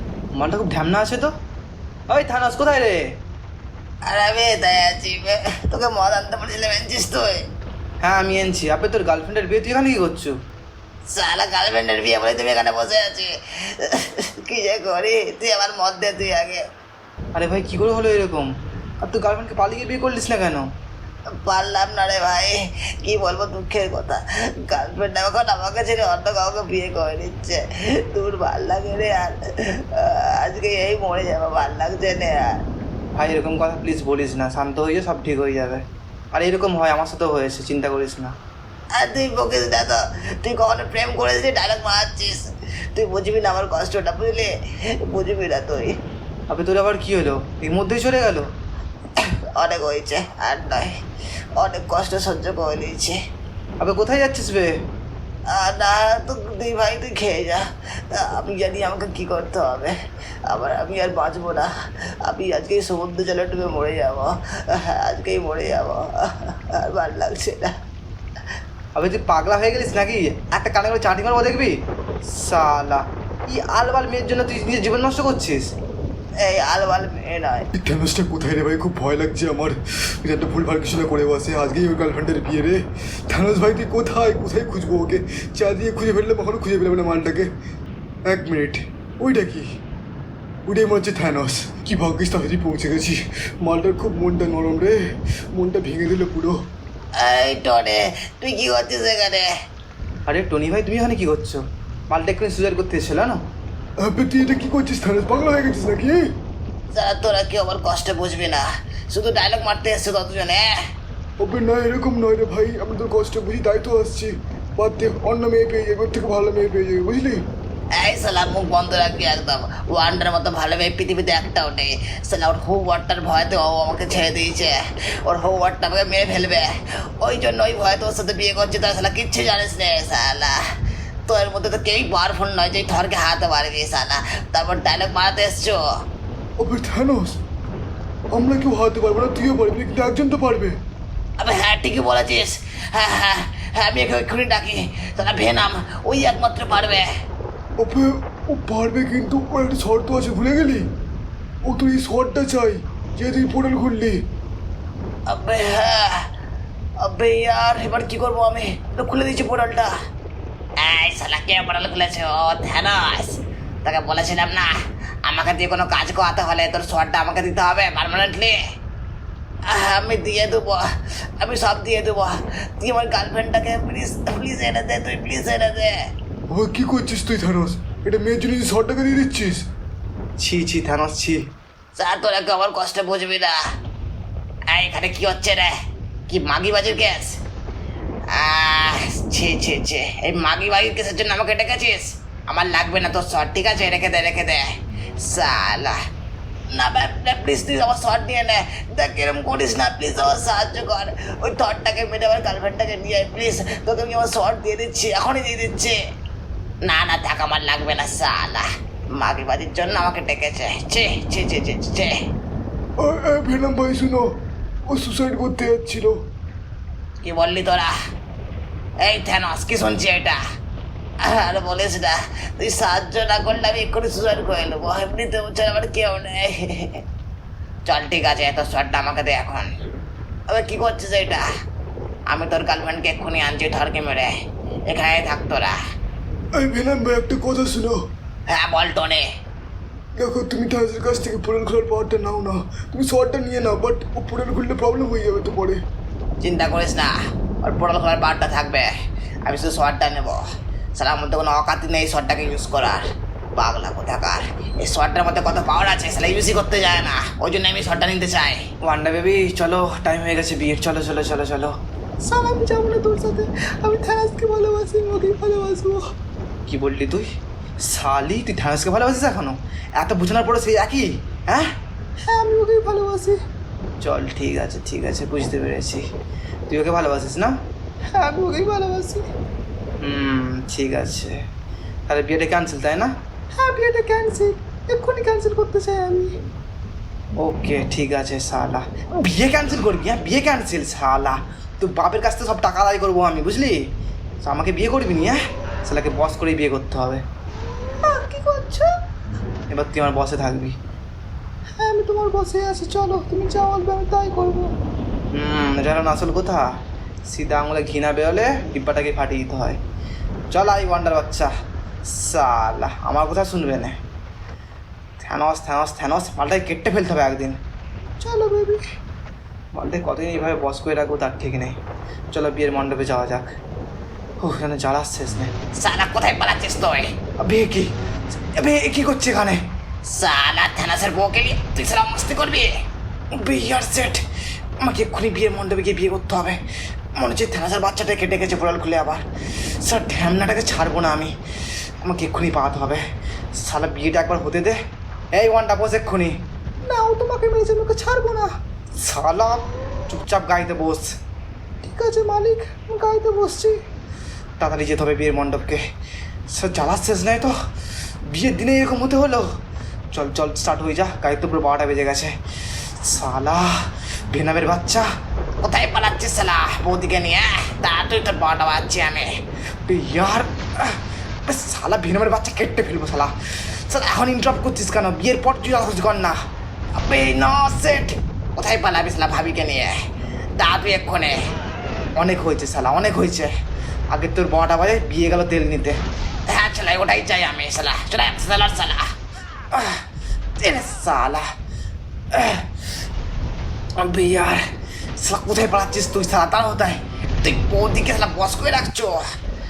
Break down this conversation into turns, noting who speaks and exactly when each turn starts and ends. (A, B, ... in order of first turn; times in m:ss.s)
0:00.4-0:01.3 A
0:02.1-0:03.0 A
0:04.1-0:07.4 B
0:08.0-0:10.3 A
0:11.1-0:16.6 B
0:17.4-0:18.5 A
0:19.0-0:20.7 A
0:21.4-0:29.4 B
0:29.9-0:32.4 B
0:33.2-0:38.4 A
0:39.0-0:42.4 B
0:43.0-0:44.5 B
0:45.1-0:45.9 B
0:46.5-0:48.5 A
0:49.6-0:50.9 B
0:51.6-0:53.2 B
0:53.8-0:54.7 A
0:55.5-1:00.0 B
1:00.5-1:01.7 B
1:02.2-1:07.7 B
1:09.0-1:11.7 A
1:12.3-1:15.7 A
1:16.4-1:17.6 B
1:17.8-1:27.5 C
1:28.3-1:29.7 C
1:30.7-1:36.6 C
1:37.2-1:39.5 B
1:40.3-1:43.4 A
1:44.0-1:46.3 C
1:46.9-1:50.7 B
1:51.4-1:57.4 C
1:58.0-2:06.7 B
2:07.2-2:10.6 B
2:11.3-2:15.8 B
2:16.6-2:17.4 C
2:18.3-2:20.8 C
2:21.4-2:27.0 B
2:27.8-2:30.8 C
2:31.6-2:34.2 C
2:35.3-2:36.2 B
2:37.1-2:39.9 B
2:40.8-2:43.3 B
2:43.8-2:44.7 B
2:45.3-2:48.5 B
2:49.7-2:50.8 B
2:51.4-2:55.9 B
2:56.5-2:59.6 C
3:00.4-3:01.4 A
3:02.0-3:03.6 B
3:04.7-3:05.8 B
3:06.3-3:07.3 B
3:08.4-3:14.7 B
3:15.2-3:16.0 B
3:16.8-3:26.0 B
3:26.9-3:28.6 B
3:29.2-3:32.1 B
3:33.0-3:34.3 C
3:34.9-3:36.2 C
3:37.2-3:37.9 B
3:39.0-3:40.4 B
3:41.2-3:47.0 B
3:47.9-3:49.6 B
3:50.5-3:51.4 B
3:52.3-3:54.3 B
3:54.9-3:55.7 B
3:56.6-3:58.0 C
3:58.5-3:59.2 B
4:00.2-4:05.8 C
4:06.4-4:07.1 B
4:07.6-4:08.9 B
4:09.5-4:10.4 B
4:11.0-4:13.0 B
4:13.6-4:18.6 B
4:18.8-4:21.7 A
4:22.3-4:26.0 C
4:26.7-4:27.3 A
4:27.8-4:31.7 A
4:32.6-4:33.3 C
4:34.0-4:36.0 A
4:36.7-4:37.5 A
4:38.2-4:38.6 A
4:40.0-4:41.4 A
4:42.1-4:43.1 A
4:43.6-4:44.5 C
4:45.1-4:46.3 C
4:47.4-4:53.8 A
4:54.4-4:57.2 A
4:59.7-5:00.8 A
5:01.9-5:04.5 C
5:05.3-5:06.7 A
5:07.3-5:09.8 A
5:10.5-5:11.5 A
5:12.1-5:14.0 A
5:15.3-5:17.6 A
5:18.2-5:18.8 C
5:19.7-5:21.8 A
5:22.3-5:23.5 A
5:24.4-5:25.5 A
5:25.8-5:27.1 B
5:27.4-5:27.9 A
5:28.6-5:29.6 A
5:30.2-5:32.7 B
5:33.4-5:34.2 A
5:34.8-5:36.6 A
5:37.2-5:39.2 A
5:39.8-5:41.3 A
5:42.0-5:43.0 A
5:43.6-5:44.8 A
5:45.3-5:46.4 A
5:46.9-5:48.5 C
5:49.0-5:51.0 A
5:51.9-5:53.7 C
5:54.6-5:55.8 A
5:56.5-5:57.5 A
5:58.3-5:59.5 A
6:00.1-6:02.3 A
6:03.0-6:03.7 A
6:04.3-6:05.1 A
6:05.7-6:09.3 B
6:07.0-6:07.3 A
6:09.9-6:16.4 A
6:17.0-6:18.2 A
6:18.6-6:19.9 B
6:20.6-6:21.3 B
6:20.9-6:21.3 A
6:22.2-6:23.5 A
6:24.1-6:26.0 A
6:26.6-6:29.0 B
6:29.7-6:30.0 A
6:30.6-6:31.4 A
6:32.3-6:32.7 A
6:34.0-6:34.6 A
6:35.2-6:39.0 A
6:38.0-6:39.0 B